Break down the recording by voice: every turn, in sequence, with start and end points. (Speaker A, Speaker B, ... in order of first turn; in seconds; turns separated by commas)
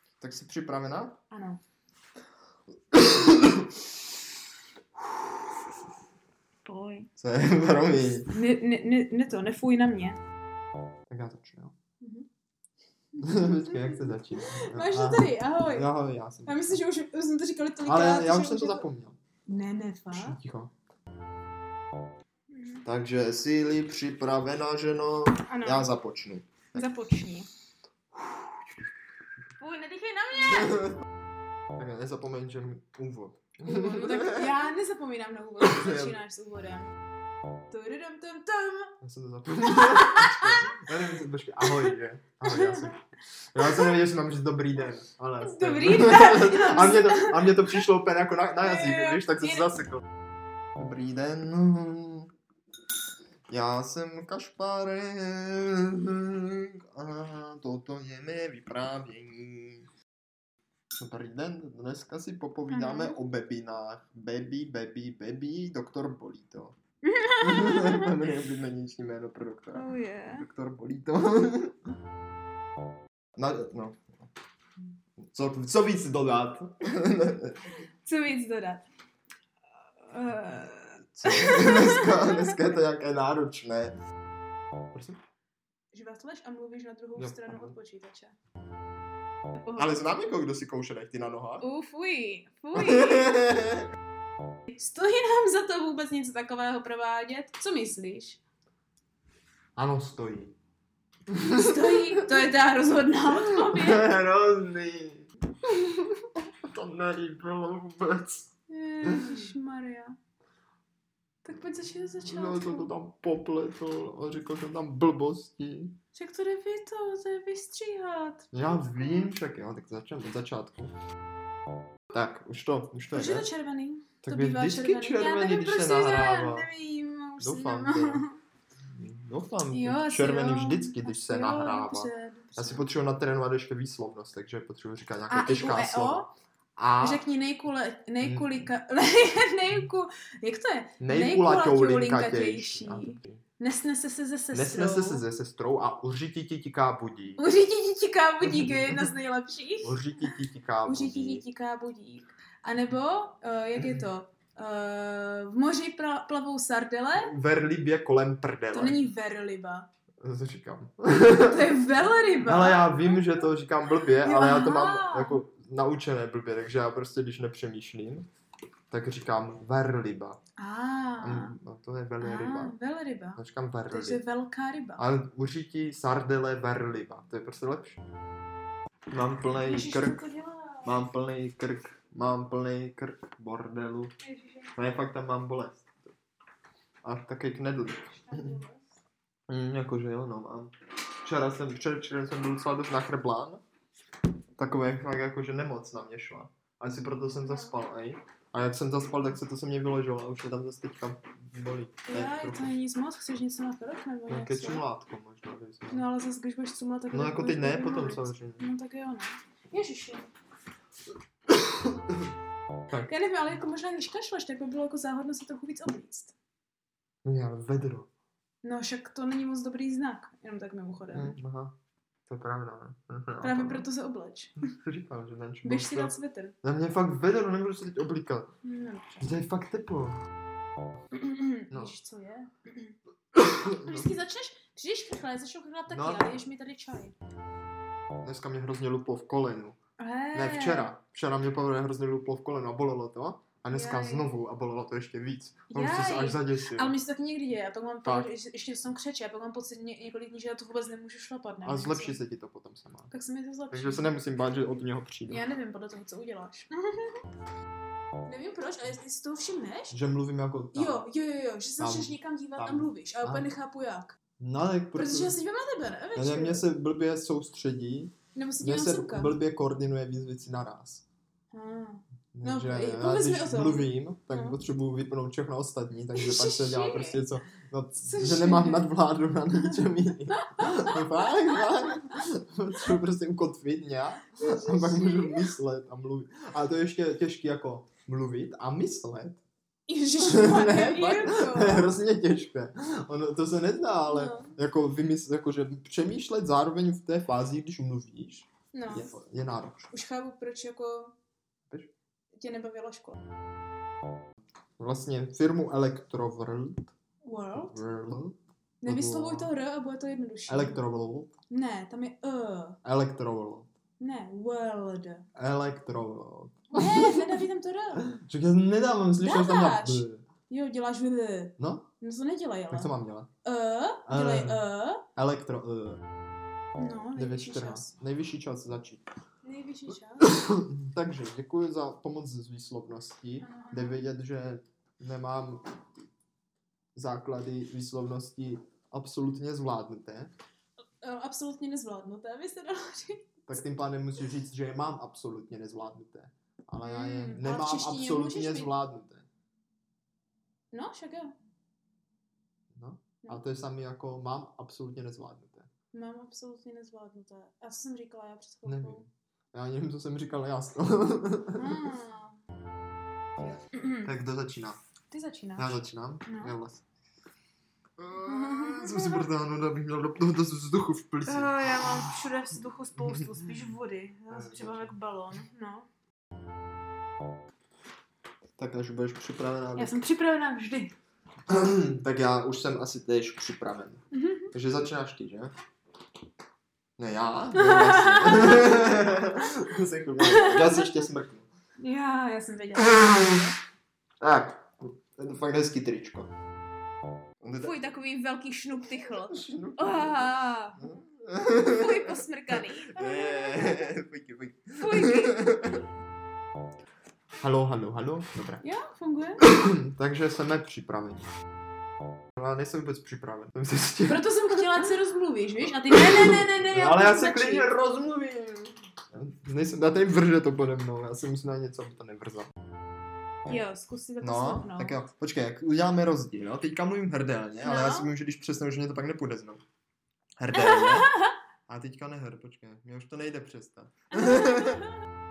Speaker A: 0.2-1.2, Speaker B: 1.3-1.6, Speaker A: 2.9-3.9, Speaker B: 6.6-7.1, Speaker A: 7.2-8.3, Speaker B: 8.3-10.2, Speaker A: 11.1-11.7, Speaker B: 12.0-12.3, Speaker B: 13.2-15.9, Speaker A: 13.2-16.8, Speaker B: 16.4-18.8, Speaker A: 17.8-19.2, Speaker B: 19.5-20.4, Speaker A: 20.1-20.7, Speaker B: 22.5-22.8, Speaker A: 22.8-26.8, Speaker B: 25.5-25.9, Speaker B: 26.7-27.5, Speaker B: 29.6-30.9, Speaker A: 30.7-30.9, Speaker A: 31.8-34.5, Speaker B: 33.6-36.9, Speaker A: 35.6-36.2, Speaker B: 37.7-38.9, Speaker A: 39.0-43.0, Speaker B: 39.7-40.7, Speaker B: 42.5-42.9, Speaker A: 43.5-50.0, Speaker B: 45.4-47.7, Speaker B: 48.6-49.7, Speaker A: 50.8-52.3, Speaker A: 53.5-59.9, Speaker A: 61.0-66.8, Speaker B: 62.7-63.2, Speaker B: 67.0-68.1, Speaker A: 67.4-71.8, Speaker B: 69.7-70.5, Speaker A: 73.4-74.1, Speaker A: 75.3-77.6, Speaker B: 78.0-78.8, Speaker B: 80.1-82.5, Speaker A: 81.1-84.0, Speaker A: 84.9-85.2, Speaker B: 85.9-88.3, Speaker A: 87.2-87.8, Speaker A: 89.7-91.7, Speaker B: 91.6-93.4, Speaker A: 92.7-93.9, Speaker B: 94.7-98.4, Speaker A: 99.8-100.5, Speaker A: 101.3-102.3, Speaker B: 101.4-104.0, Speaker A: 103.5-108.5, Speaker B: 108.7-110.2, Speaker A: 109.0-109.4, Speaker B: 111.4-112.9, Speaker A: 112.3-116.0, Speaker B: 116.1-119.3, Speaker A: 118.5-120.9, Speaker A: 122.1-123.5, Speaker B: 123.1-128.4, Speaker A: 124.2-126.7, Speaker A: 127.4-128.2, Speaker A: 128.9-136.2, Speaker B: 129.7-132.9, Speaker B: 135.3-136.3, Speaker A: 136.8-137.2, Speaker B: 137.0-145.2, Speaker A: 138.2-138.6, Speaker A: 141.0-143.4, Speaker A: 144.5-147.4, Speaker B: 147.4-150.3, Speaker A: 148.4-149.1, Speaker A: 149.8-151.4, Speaker B: 150.8-157.3, Speaker A: 157.2-159.0, Speaker B: 158.7-159.9, Speaker A: 160.2-161.7, Speaker B: 161.4-163.5, Speaker A: 162.4-168.3, Speaker B: 164.2-165.4, Speaker A: 168.9-170.4, Speaker B: 170.6-171.5, Speaker A: 171.2-172.8, Speaker B: 172.2-175.0, Speaker A: 173.3-174.2, Speaker A: 175.0-178.0, Speaker A: 179.1-180.2, Speaker B: 179.6-180.9, Speaker A: 180.8-184.1, Speaker B: 184.2-184.7, Speaker A: 184.7-186.1, Speaker A: 187.0-188.6, Speaker B: 188.1-188.9, Speaker A: 189.5-190.7, Speaker A: 191.2-193.6, Speaker A: 194.6-202.7, Speaker B: 197.4-197.7, Speaker B: 202.1-204.8, Speaker A: 204.3-206.0, Speaker B: 205.9-210.3, Speaker A: 207.1-208.7, Speaker A: 211.5-212.3, Speaker B: 213.1-216.3, Speaker A: 217.2-218.1, Speaker B: 218.6-221.3, Speaker A: 221.1-221.7, Speaker A: 222.3-223.9, Speaker B: 223.4-224.7, Speaker A: 224.6-228.5, Speaker B: 225.6-226.6, Speaker B: 228.6-229.3, Speaker A: 229.2-230.2, Speaker B: 231.1-232.9, Speaker A: 233.3-234.1, Speaker B: 233.8-237.1, Speaker A: 235.9-236.3, Speaker A: 238.2-239.8, Speaker B: 240.0-240.9, Speaker A: 240.3-246.9, Speaker B: 243.7-244.3, Speaker B: 245.7-252.2, Speaker A: 251.6-253.1, Speaker B: 253.1-254.1, Speaker A: 253.7-255.4, Speaker B: 255.3-257.2, Speaker B: 258.2-259.9, Speaker A: 259.9-261.1, Speaker B: 260.7-264.2, Speaker A: 261.8-263.5, Speaker A: 264.4-265.4, Speaker B: 264.9-266.6, Speaker A: 266.1-271.0, Speaker B: 268.3-269.3, Speaker B: 271.5-274.6, Speaker A: 272.3-289.4, Speaker B: 276.1-277.2, Speaker B: 278.1-278.9, Speaker B: 280.4-281.9, Speaker B: 284.4-285.5, Speaker B: 289.9-291.9, Speaker A: 290.2-299.9, Speaker B: 294.1-294.5, Speaker B: 298.7-299.2, Speaker B: 299.9-301.1, Speaker B: 302.4-303.1, Speaker A: 304.8-306.9, Speaker B: 307.2-307.8, Speaker A: 307.5-309.5, Speaker B: 308.8-310.8, Speaker A: 310.5-311.3, Speaker B: 311.5-312.8, Speaker A: 312.8-313.7, Speaker B: 314.0-315.2, Speaker A: 315.3-317.4, Speaker B: 316.7-318.1, Speaker A: 318.0-320.2, Speaker B: 319.2-322.9, Speaker A: 321.6-321.9, Speaker A: 322.7-323.3, Speaker B: 323.4-325.0, Speaker A: 324.1-324.6, Speaker A: 325.1-326.0, Speaker B: 326.8-327.9, Speaker A: 327.1-329.0, Speaker B: 329.4-330.3, Speaker A: 330.2-335.7, Speaker B: 333.4-334.0, Speaker A: 336.9-340.3, Speaker B: 341.0-343.4, Speaker A: 343.5-349.2, Speaker B: 346.8-348.7, Speaker B: 350.7-351.3, Speaker A: 352.7-355.7, Speaker B: 355.9-359.0, Speaker A: 358.6-361.8, Speaker B: 361.6-362.4, Speaker B: 363.7-364.1, Speaker A: 364.0-364.8, Speaker B: 365.1-366.5, Speaker A: 365.6-366.8, Speaker A: 368.0-372.1, Speaker B: 368.2-369.3, Speaker B: 371.3-375.9, Speaker A: 374.3-374.9, Speaker A: 378.6-380.0, Speaker B: 379.8-380.9, Speaker A: 381.5-385.5, Speaker B: 384.1-384.5, Speaker A: 387.0-391.5, Speaker B: 387.5-388.9, Speaker B: 390.2-391.0, Speaker B: 391.8-393.6, Speaker A: 393.0-393.4, Speaker A: 394.2-396.3, Speaker A: 397.4-397.9, Speaker B: 397.6-400.9, Speaker A: 399.3-405.8, Speaker B: 401.5-403.9, Speaker B: 404.8-405.4, Speaker A: 407.4-408.6, Speaker B: 408.6-409.4, Speaker A: 409.4-411.2, Speaker A: 412.4-414.8, Speaker B: 414.1-417.7, Speaker A: 415.9-422.5, Speaker B: 423.5-424.9, Speaker A: 424.2-429.6, Speaker B: 427.6-428.1, Speaker A: 430.4-431.1, Speaker B: 430.5-431.3, Speaker A: 431.7-434.8, Speaker B: 434.1-434.9